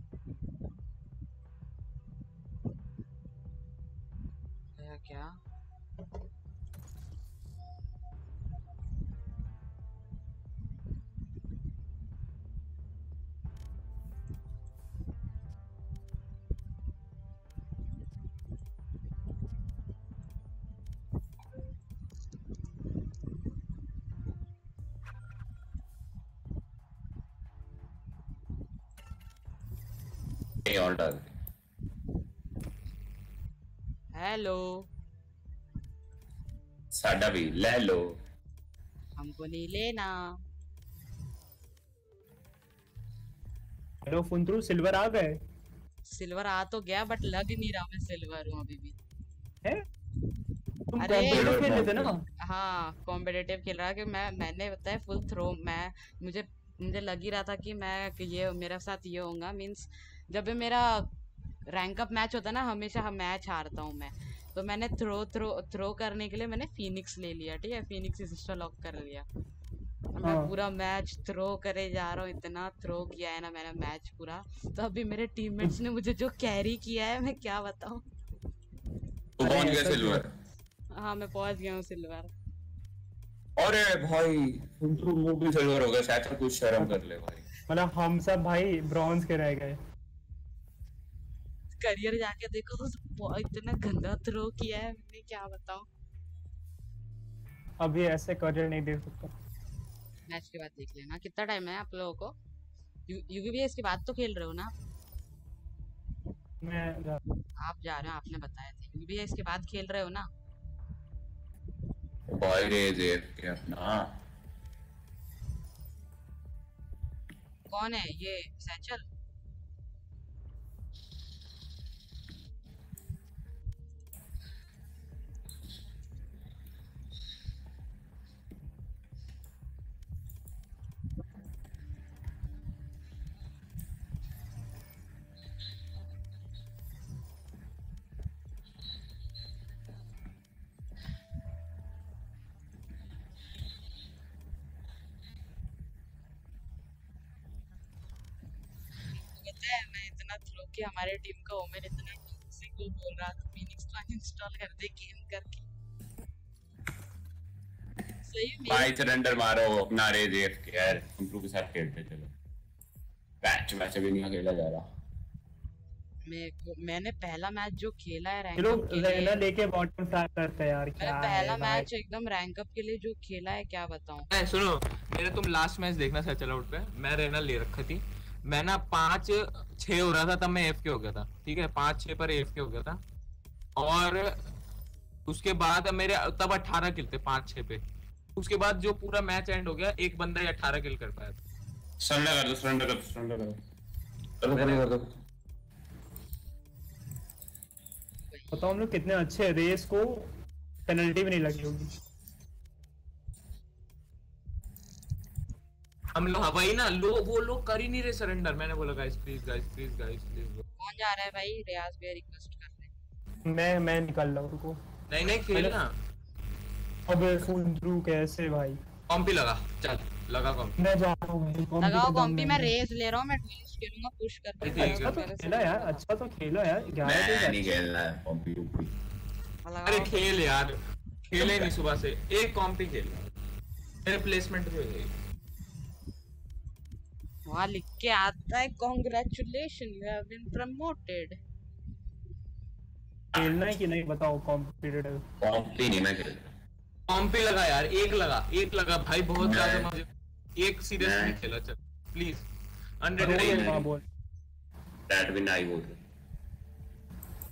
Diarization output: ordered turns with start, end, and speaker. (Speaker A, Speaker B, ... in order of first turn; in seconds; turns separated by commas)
Speaker A: 4.8-5.4, Speaker B: 30.7-31.3, Speaker A: 34.1-34.8, Speaker B: 36.9-38.1, Speaker A: 39.2-40.2, Speaker C: 44.1-45.4, Speaker A: 46.1-49.0, Speaker C: 50.9-52.2, Speaker A: 51.0-51.6, Speaker B: 51.2-52.1, Speaker A: 52.4-61.1, Speaker A: 61.7-69.3, Speaker A: 70.2-78.1, Speaker C: 70.2-70.5, Speaker B: 79.4-80.3, Speaker C: 79.4-80.2, Speaker A: 80.9-82.3, Speaker B: 83.6-87.5, Speaker C: 87.7-89.8, Speaker A: 91.7-95.9, Speaker C: 97.8-99.3, Speaker A: 100.3-102.3, Speaker A: 103.1-104.7, Speaker C: 106.6-107.2, Speaker A: 107.6-110.3, Speaker B: 112.3-114.1, Speaker A: 117.7-119.1, Speaker A: 149.1-155.7, Speaker A: 158.2-158.9, Speaker B: 158.7-162.3, Speaker B: 163.4-164.8, Speaker A: 166.2-169.4, Speaker C: 168.6-171.9, Speaker A: 171.0-174.3, Speaker D: 174.3-183.0, Speaker D: 183.8-184.4, Speaker D: 185.3-187.8, Speaker D: 188.4-191.4, Speaker B: 192.0-193.6, Speaker B: 194.4-195.1, Speaker A: 198.3-198.7, Speaker C: 198.5-200.3, Speaker C: 200.9-201.9, Speaker D: 206.2-210.7, Speaker A: 210.8-212.9, Speaker C: 213.5-214.8, Speaker D: 215.1-215.9, Speaker C: 215.3-215.8, Speaker C: 217.1-218.8, Speaker D: 219.1-220.8, Speaker C: 220.8-222.7, Speaker A: 221.8-226.0, Speaker D: 224.6-225.2, Speaker C: 224.7-227.7, Speaker B: 227.0-228.9, Speaker A: 229.7-230.2, Speaker D: 229.9-230.8, Speaker D: 231.3-233.2, Speaker B: 231.3-231.7, Speaker D: 234.1-235.1, Speaker A: 237.5-241.4, Speaker C: 243.4-245.2, Speaker B: 245.4-246.5, Speaker D: 247.1-250.1, Speaker B: 249.4-249.9, Speaker D: 250.6-252.4, Speaker B: 251.0-251.4, Speaker D: 253.0-253.8, Speaker C: 253.2-254.0, Speaker B: 253.2-253.8, Speaker B: 255.1-256.0